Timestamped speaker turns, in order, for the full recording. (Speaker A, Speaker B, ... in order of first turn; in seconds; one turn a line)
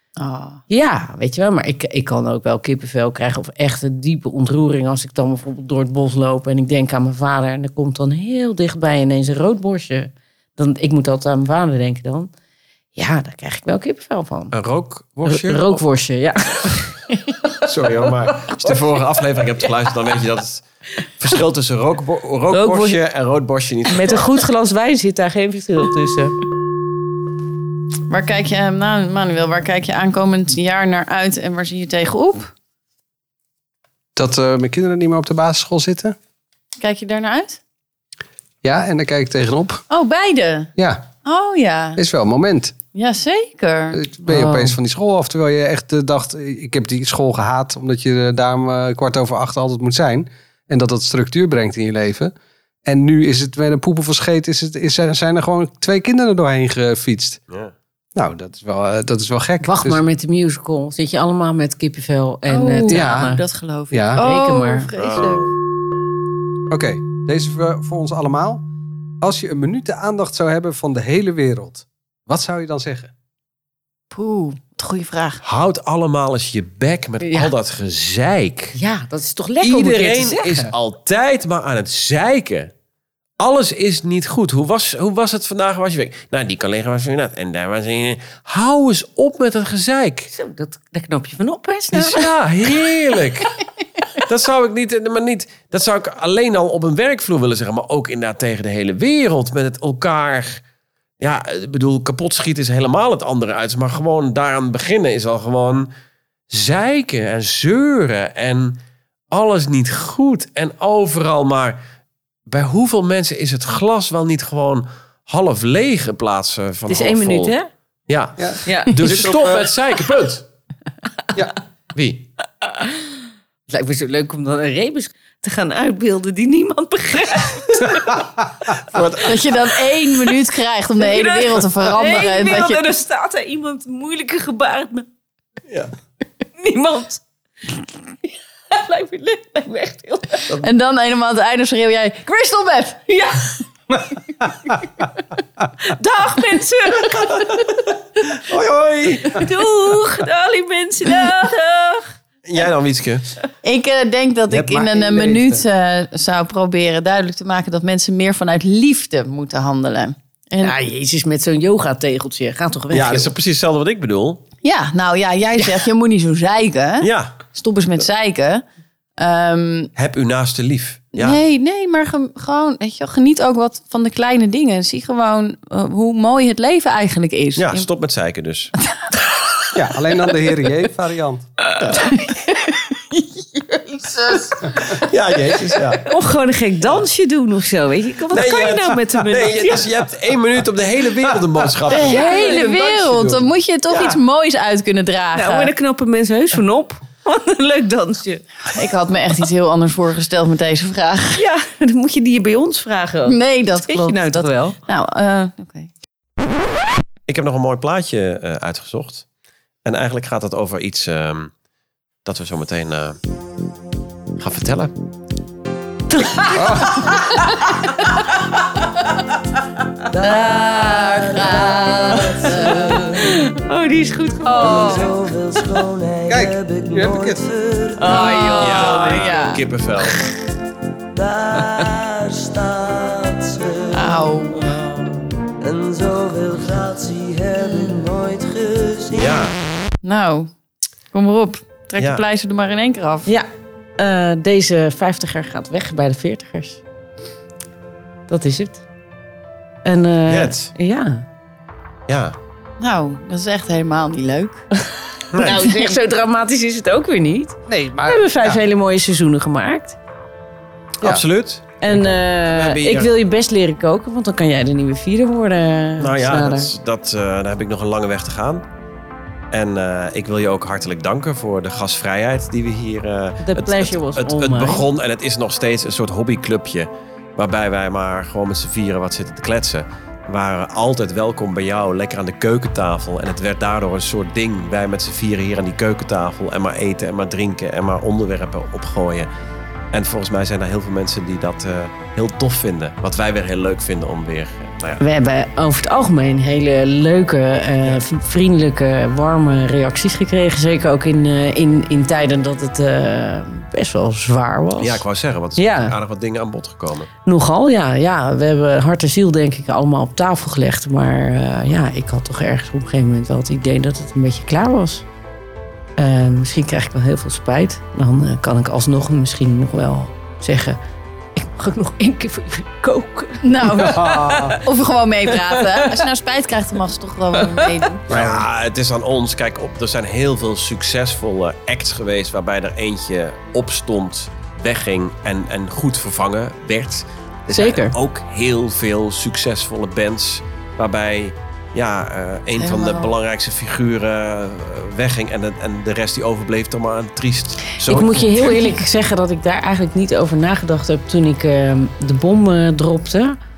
Speaker A: 0.2-0.6
Speaker B: 0.7-12.3
Speaker B: 12.9-14.6
Speaker C: 14.5-15.8
Speaker B: 15.3-18.8
Speaker C: 17.6-20.6
Speaker C: 21.2-24.2
Speaker B: 22.5-23.0
Speaker B: 23.9-26.4
Speaker A: 28.1-32.5
Speaker D: 34.1-36.2
Speaker A: 36.8-37.6
Speaker D: 38.6-39.8
Speaker A: 39.9-40.7
Speaker D: 40.8-41.1
Speaker A: 41.2-42.0
Speaker D: 42.0-42.7
Speaker A: 42.9-44.0
Speaker D: 43.9-52.3
Speaker B: 44.3-44.8
Speaker D: 52.9-57.4
Speaker C: 57.5-57.7
Speaker D: 58.1-60.0
Speaker B: 59.6-63.4
Speaker A: 62.5-65.5
Speaker D: 62.9-63.3
Speaker D: 63.9-64.3
Speaker B: 64.2-64.9
Speaker C: 65.0-65.5
Speaker D: 66.7-68.7
Speaker D: 69.2-73.1
Speaker A: 74.1-75.4
Speaker C: 75.4-78.8
Speaker B: 77.2-77.5
Speaker B: 78.8-80.7
Speaker C: 79.6-82.7
Speaker C: 83.4-90.3
Speaker B: 90.3-92.9
Speaker C: 91.9-93.6
Speaker C: 94.2-100.6
Speaker C: 101.2-105.9
Speaker C: 106.5-108.8
Speaker C: 109.3-111.8
Speaker C: 112.5-117.5
Speaker B: 116.9-117.7
Speaker C: 118.1-120.5
Speaker D: 118.4-119.7
Speaker B: 118.7-119.0
Speaker C: 122.0-122.3
Speaker B: 122.7-123.1
Speaker B: 123.7-128.3
Speaker C: 128.9-129.7
Speaker A: 129.2-132.9
Speaker B: 131.0-135.1
Speaker B: 136.6-137.2
Speaker B: 138.7-140.5
Speaker A: 140.6-143.2
Speaker B: 143.2-143.6
Speaker B: 145.8-147.8
Speaker C: 147.1-149.6
Speaker B: 149.3-152.1
Speaker C: 152.4-153.3
Speaker A: 153.6-160.8
Speaker D: 154.5-155.6
Speaker B: 160.6-163.3
Speaker C: 162.9-164.4
Speaker A: 164.6-168.6
Speaker C: 167.0-167.4
Speaker A: 169.2-169.9
Speaker C: 170.0-171.4
Speaker A: 171.2-177.9
Speaker C: 177.6-178.7
Speaker D: 179.7-181.4
Speaker C: 181.8-182.1
Speaker A: 181.9-185.5
Speaker C: 184.9-186.1
Speaker B: 186.1-189.9
Speaker C: 188.3-192.3
Speaker B: 191.9-193.4
Speaker A: 191.9-195.7
Speaker B: 195.3-198.4
Speaker A: 198.7-201.4
Speaker B: 201.4-203.4
Speaker A: 203.3-205.9
Speaker B: 203.9-204.8
Speaker C: 207.3-209.2
Speaker C: 209.8-211.5
Speaker C: 212.2-213.2
Speaker C: 214.4-214.9
Speaker B: 216.1-217.3
Speaker D: 216.5-217.1
Speaker E: 220.1-223.3
Speaker A: 220.2-223.3
Speaker B: 222.4-225.2
Speaker A: 224.4-225.1
Speaker E: 224.7-228.3
Speaker D: 226.3-227.4
Speaker B: 228.0-229.4
Speaker A: 228.0-229.6
Speaker C: 228.5-230.2
Speaker E: 231.1-234.2
Speaker A: 233.9-234.8
Speaker B: 234.6-235.2
Speaker E: 235.6-239.4
Speaker C: 239.1-239.6
Speaker A: 240.0-240.5
Speaker A: 241.1-243.3
Speaker C: 242.0-242.2
Speaker B: 243.3-246.8
Speaker B: 248.3-248.8
Speaker B: 249.8-251.2
Speaker C: 250.3-250.7
Speaker C: 252.1-252.4
Speaker A: 252.8-254.7
Speaker B: 255.2-260.0
Speaker C: 255.3-255.7
Speaker D: 257.7-258.6
Speaker C: 261.0-263.1
Speaker B: 261.8-266.7
Speaker C: 266.0-268.6
Speaker C: 269.5-289.3
Speaker B: 273.4-274.9
Speaker C: 289.9-295.0
Speaker B: 295.0-305.0
Speaker C: 304.8-307.1
Speaker B: 305.6-306.0
Speaker B: 307.2-315.1
Speaker B: 316.0-320.8
Speaker B: 321.4-324.6
Speaker A: 323.4-328.0
Speaker D: 323.8-324.6
Speaker B: 325.8-326.1
Speaker B: 327.4-327.8
Speaker D: 328.1-328.5
Speaker C: 328.1-348.7
Speaker B: 337.5-338.0
Speaker A: 342.6-343.1
Speaker B: 347.9-353.4